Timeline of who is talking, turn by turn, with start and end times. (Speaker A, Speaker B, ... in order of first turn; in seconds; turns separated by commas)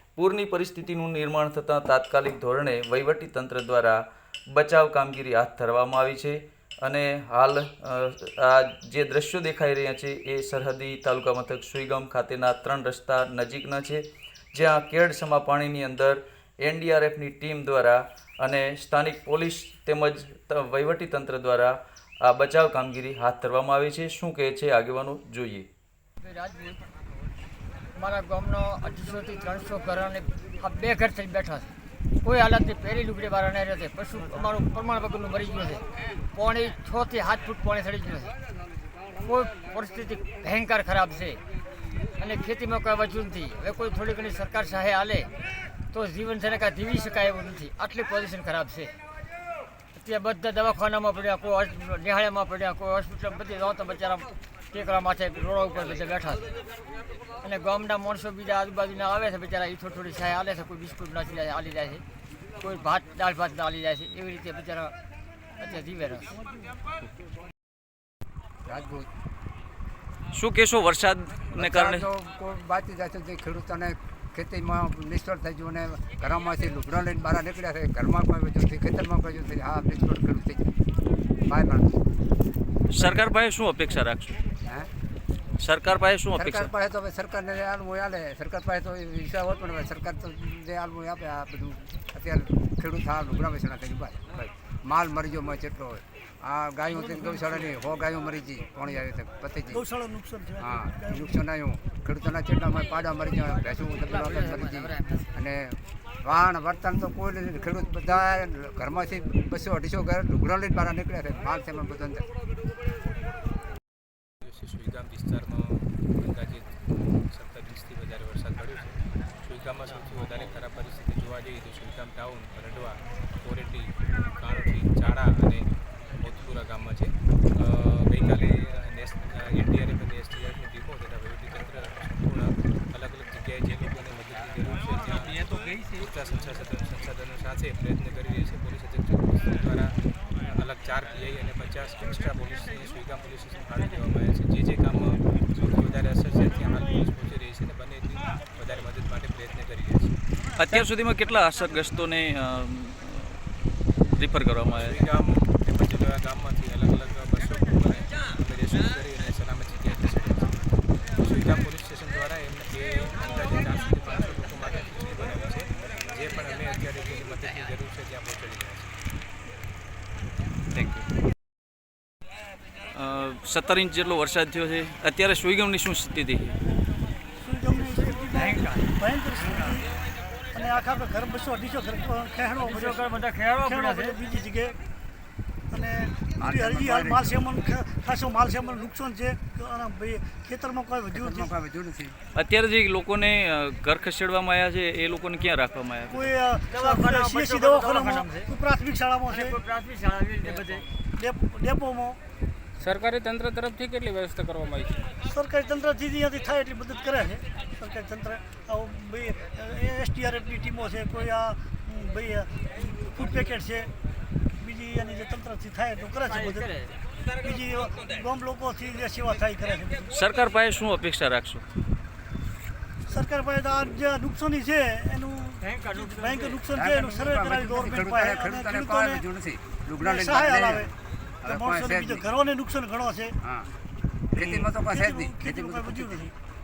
Speaker A: 0.1-4.0, Speaker A: 4.5-25.7, Speaker B: 26.2-27.0, Speaker B: 27.9-38.3, Speaker B: 39.2-41.4, Speaker B: 42.1-45.3, Speaker B: 45.9-48.9, Speaker B: 49.9-56.6, Speaker B: 57.4-62.0, Speaker B: 62.6-64.9, Speaker B: 65.6-66.4, Speaker C: 68.7-69.1, Speaker A: 70.3-72.1, Speaker C: 71.5-80.7, Speaker C: 81.4-81.9, Speaker A: 82.9-84.4, Speaker C: 83.0-83.3, Speaker A: 85.6-86.7, Speaker C: 86.3-99.8, Speaker D: 97.0-97.6, Speaker D: 99.7-101.4, Speaker C: 100.6-112.3, Speaker B: 104.0-105.4, Speaker E: 114.4-150.2, Speaker A: 150.6-153.4, Speaker A: 154.0-155.0, Speaker E: 154.7-160.6, Speaker E: 161.2-168.9, Speaker A: 170.7-171.0, Speaker A: 172.9-176.6, Speaker D: 177.4-179.9, Speaker B: 178.3-179.8, Speaker D: 180.5-183.1, Speaker B: 182.6-184.2, Speaker D: 183.6-184.8, Speaker D: 185.7-191.5, Speaker C: 186.4-187.3, Speaker C: 191.1-192.2, Speaker A: 192.3-196.3, Speaker D: 196.1-199.6, Speaker B: 196.7-198.5, Speaker B: 199.2-200.8, Speaker D: 201.2-202.2, Speaker F: 202.8-205.1, Speaker D: 205.2-213.9, Speaker D: 214.6-216.7, Speaker B: 216.1-217.0, Speaker D: 217.4-220.1, Speaker A: 220.1-221.6, Speaker D: 223.1-229.2, Speaker B: 225.6-226.6, Speaker C: 226.7-230.9, Speaker D: 230.0-230.9, Speaker C: 231.4-232.2, Speaker D: 231.4-233.3, Speaker C: 233.4-233.7, Speaker C: 234.3-236.3, Speaker D: 234.3-236.3